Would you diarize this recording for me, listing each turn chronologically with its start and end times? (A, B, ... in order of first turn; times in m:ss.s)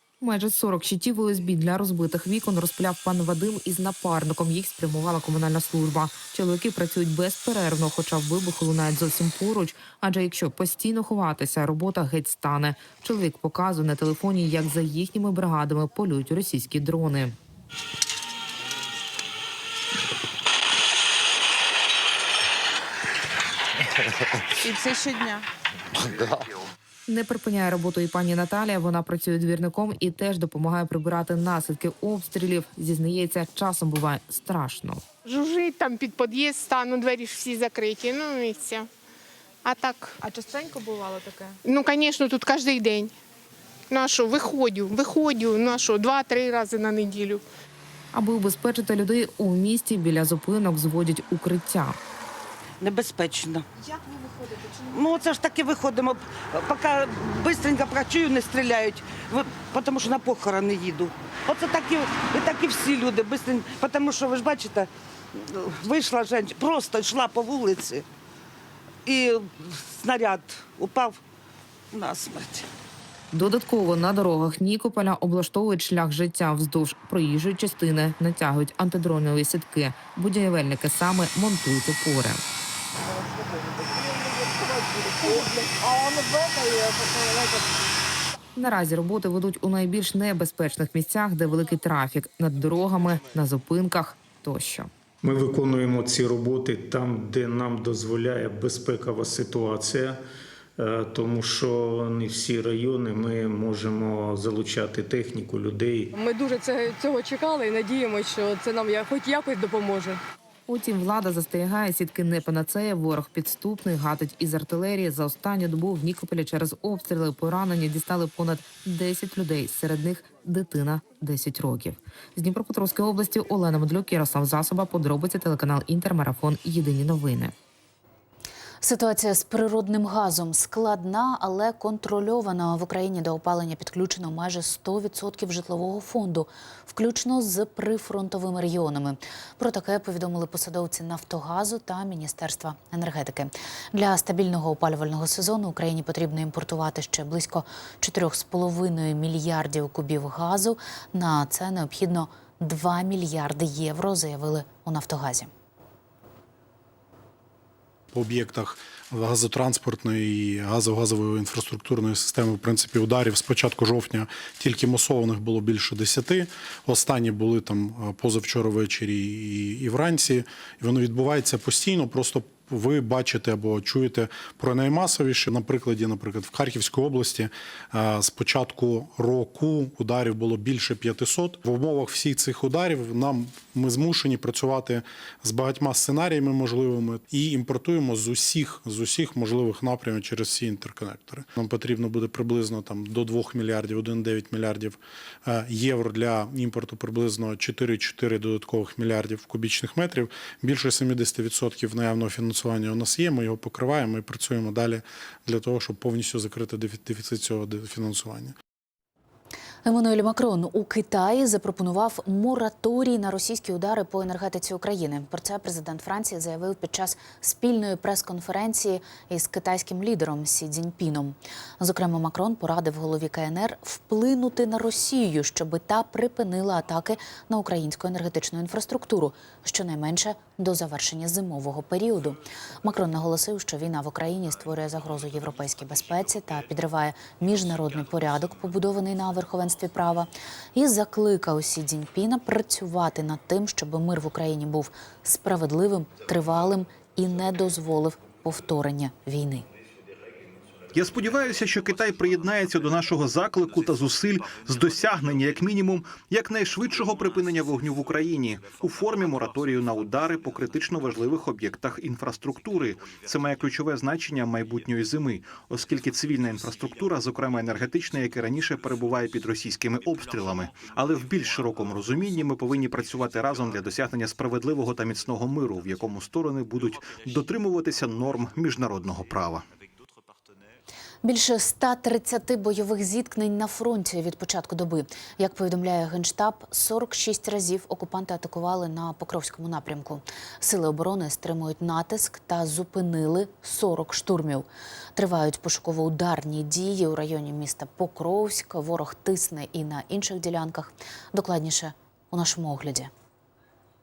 0:00.2-0:17.3 A
0:25.0-0:25.4 B
0:27.1-0:35.0 A
0:35.2-0:38.9 C
0:39.6-0:40.2 C
0:41.6-0:43.1 C
0:43.9-0:47.4 C
0:48.1-0:52.0 A
0:52.8-0:53.6 D
0:54.8-1:08.0 D
1:09.0-1:11.2 D
1:11.9-1:12.7 D
1:13.3-1:22.4 A
1:24.6-1:27.4 D
1:28.6-1:34.9 A
1:35.2-1:40.2 E
1:40.8-1:46.1 E
1:46.2-1:50.2 B
1:50.7-2:07.5 A
2:08.8-2:35.5 F
2:38.1-3:28.6 G
3:29.8-4:09.6 F
4:10.9-4:39.6 H
4:41.2-5:03.1 F